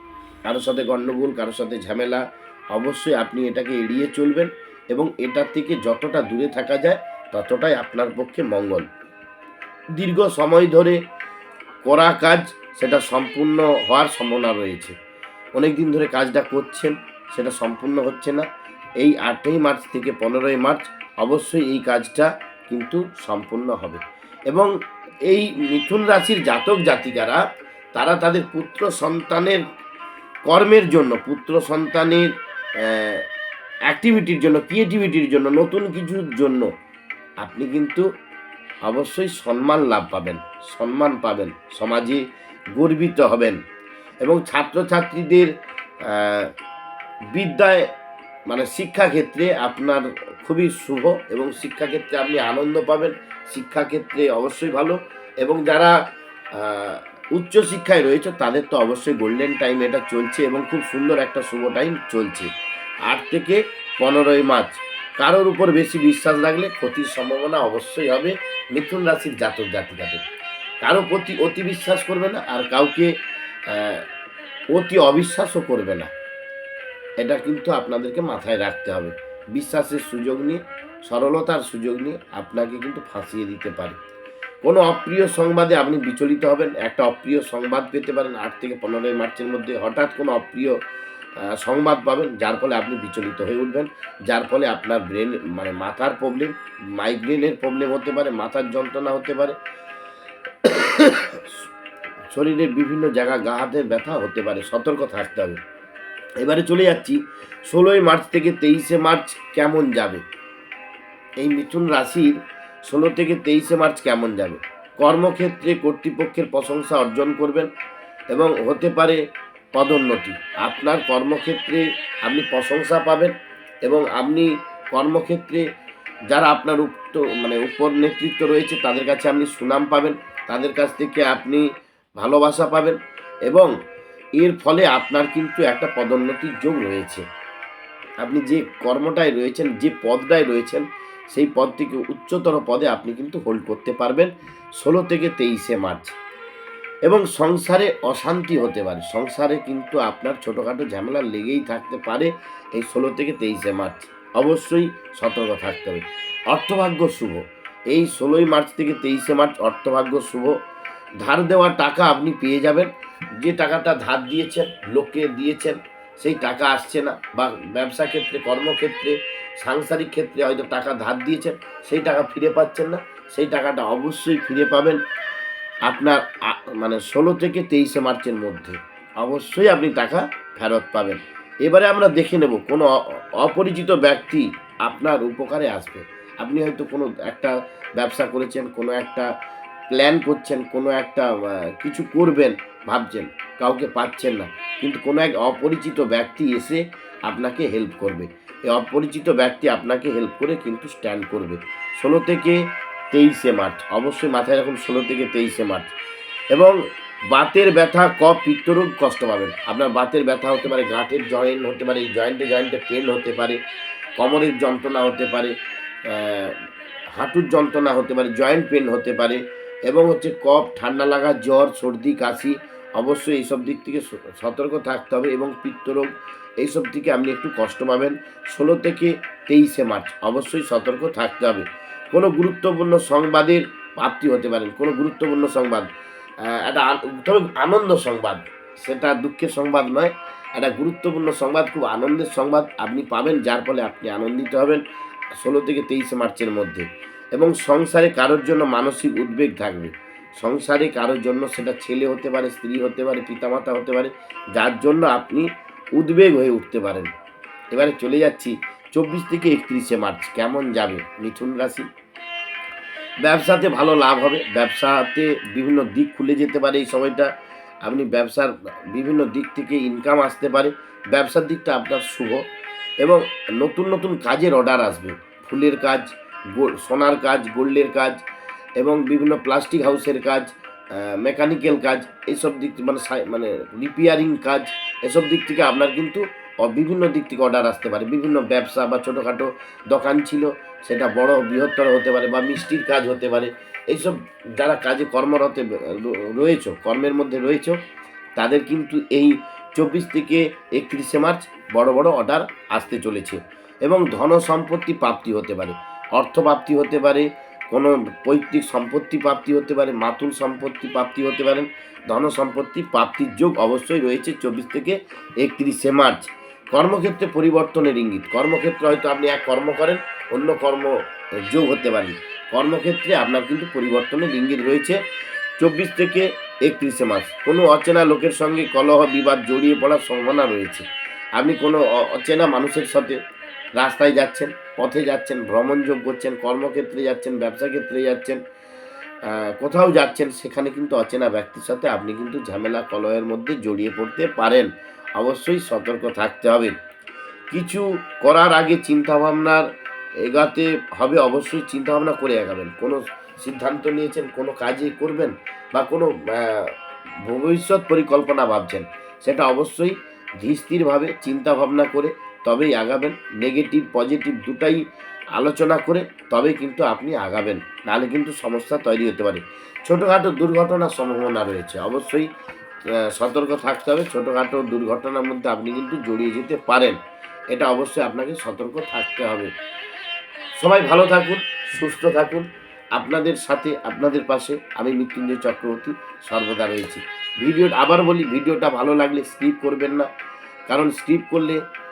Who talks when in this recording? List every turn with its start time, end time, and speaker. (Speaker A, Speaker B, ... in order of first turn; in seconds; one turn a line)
Speaker A: 0.4-8.9
Speaker A: 9.9-11.0
Speaker A: 11.8-14.9
Speaker A: 15.6-18.5
Speaker A: 19.0-24.7
Speaker A: 25.3-27.4
Speaker A: 27.9-29.6
Speaker A: 30.5-33.2
Speaker A: 33.9-36.7
Speaker A: 37.4-38.0
Speaker A: 38.8-42.2
Speaker A: 42.7-43.6
Speaker A: 44.2-45.5
Speaker A: 46.0-46.5
Speaker A: 47.3-47.9
Speaker A: 48.5-55.9
Speaker A: 56.5-62.5
Speaker A: 63.1-70.2
Speaker A: 70.8-73.1
Speaker A: 73.7-74.1
Speaker A: 74.7-76.1
Speaker A: 77.2-84.0
Speaker A: 84.6-90.8
Speaker A: 91.4-99.6
Speaker A: 100.6-101.6
Speaker A: 102.3-105.6
Speaker A: 106.4-110.2
Speaker A: 111.4-112.3
Speaker A: 112.8-117.7
Speaker A: 118.3-119.2
Speaker A: 119.7-125.6
Speaker A: 126.3-131.7
Speaker A: 132.2-133.7
Speaker A: 134.4-137.2
Speaker A: 138.2-146.2
Speaker A: 147.0-160.6
Speaker A: 161.2-175.0
Speaker A: 175.8-189.3
Speaker A: 189.9-205.9
Speaker A: 207.3-213.6
Speaker A: 214.2-215.5
Speaker A: 216.1-216.6
Speaker A: 217.1-235.9
Speaker A: 236.4-244.8
Speaker A: 245.3-257.1
Speaker A: 257.7-261.9
Speaker A: 263.2-267.3
Speaker A: 267.8-272.4
Speaker A: 273.0-278.2
Speaker A: 278.8-297.8
Speaker A: 298.4-325.0
Speaker A: 325.6-330.9
Speaker A: 331.4-333.2
Speaker A: 333.8-338.4
Speaker A: 339.2-346.7
Speaker A: 347.5-349.7
Speaker A: 350.2-372.3
Speaker A: 372.9-377.0
Speaker A: 377.5-379.5
Speaker A: 380.6-390.1
Speaker A: 390.7-391.6